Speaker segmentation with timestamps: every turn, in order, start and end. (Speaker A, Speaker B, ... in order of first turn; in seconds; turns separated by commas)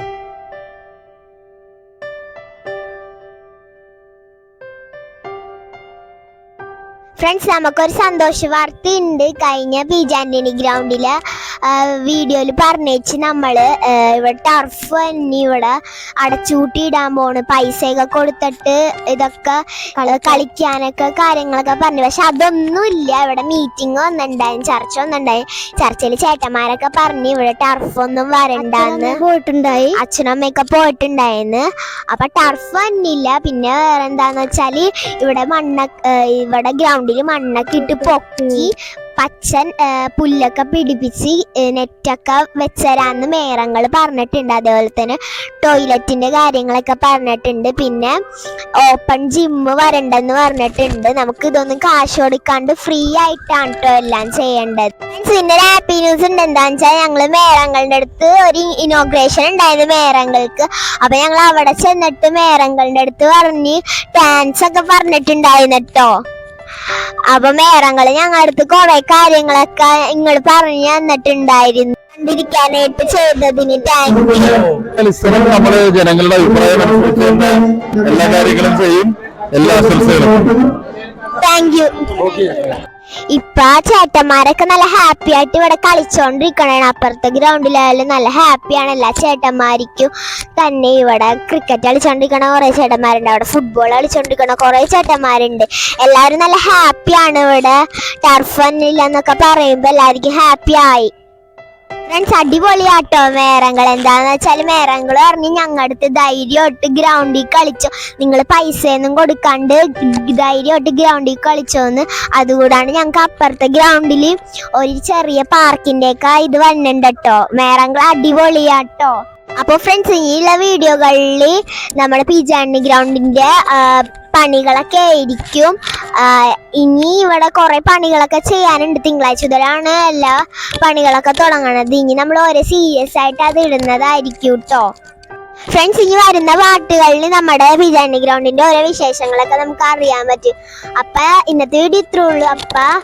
Speaker A: 7.2-11.1, Speaker A: 11.6-29.2, Speaker B: 20.0-20.4, Speaker B: 28.6-30.0, Speaker A: 30.0-48.1, Speaker B: 37.7-38.6, Speaker A: 48.8-66.1, Speaker A: 67.3-74.6, Speaker C: 74.5-80.4, Speaker A: 81.4-82.5, Speaker A: 83.3-101.1, Speaker A: 102.1-134.9, Speaker A: 135.7-142.9